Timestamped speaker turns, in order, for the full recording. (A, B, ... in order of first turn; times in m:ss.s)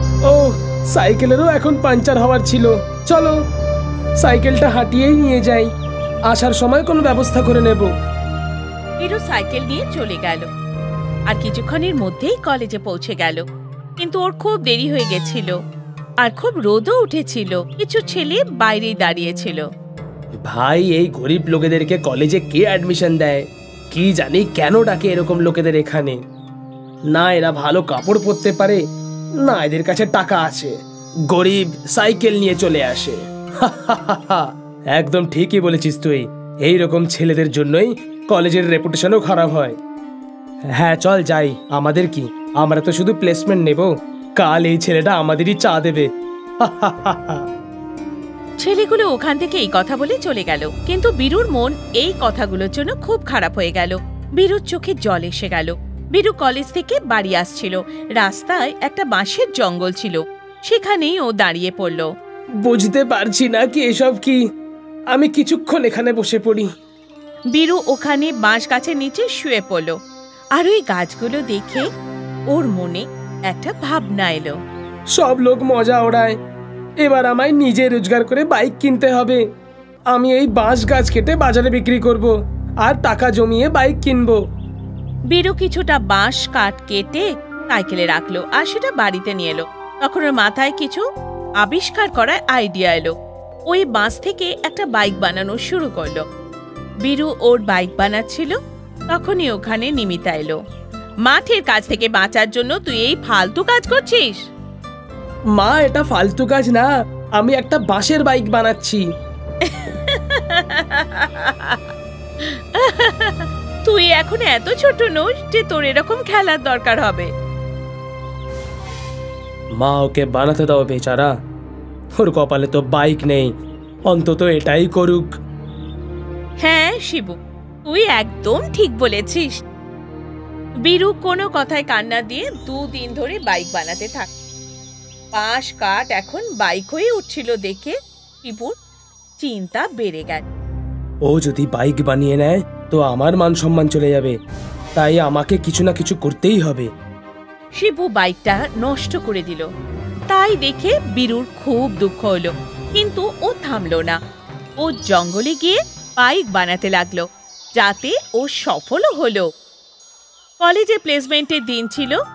0:00.3-0:03.4 A
0:04.2-0:05.7 A
0:06.3-0:07.9 A
0:09.0-0:10.5 B
0:11.3-0:13.4 B
0:14.0-0:15.6 B
0:16.2-0:19.7 B
0:20.5-0:26.2 A
0:27.1-0:28.8 A
0:29.4-0:30.8 A
0:31.3-0:39.8 A
0:40.8-0:46.1 A
0:46.6-0:47.4 A
0:48.6-1:02.1 B
1:02.6-1:04.4 A
1:05.1-1:06.7 A
1:07.5-1:10.0 B
1:10.6-1:11.9 B
1:12.5-1:14.6 B
1:15.1-1:16.4 A
1:17.0-1:19.4 A
1:20.1-1:22.3 A
1:22.8-1:24.4 A
1:25.3-1:31.0 B
1:31.6-1:33.1 B
1:33.7-1:36.2 B
1:37.0-1:38.6 B
1:39.1-1:40.6 B
1:41.2-1:44.4 B
1:45.6-1:49.0 A
1:49.6-1:51.8 B
1:52.4-1:57.3 B
1:59.8-2:01.3 A
2:02.2-2:03.5 A
2:04.1-2:05.3 A
2:06.6-2:09.6 B
2:10.8-2:14.3 B
2:15.3-2:18.8 B
2:19.4-2:20.4 B
2:21.3-2:24.4 A
2:25.0-2:26.9 A
2:27.8-2:29.7 B
2:30.3-2:34.2 B
2:34.8-2:39.5 B
2:40.6-2:42.2 B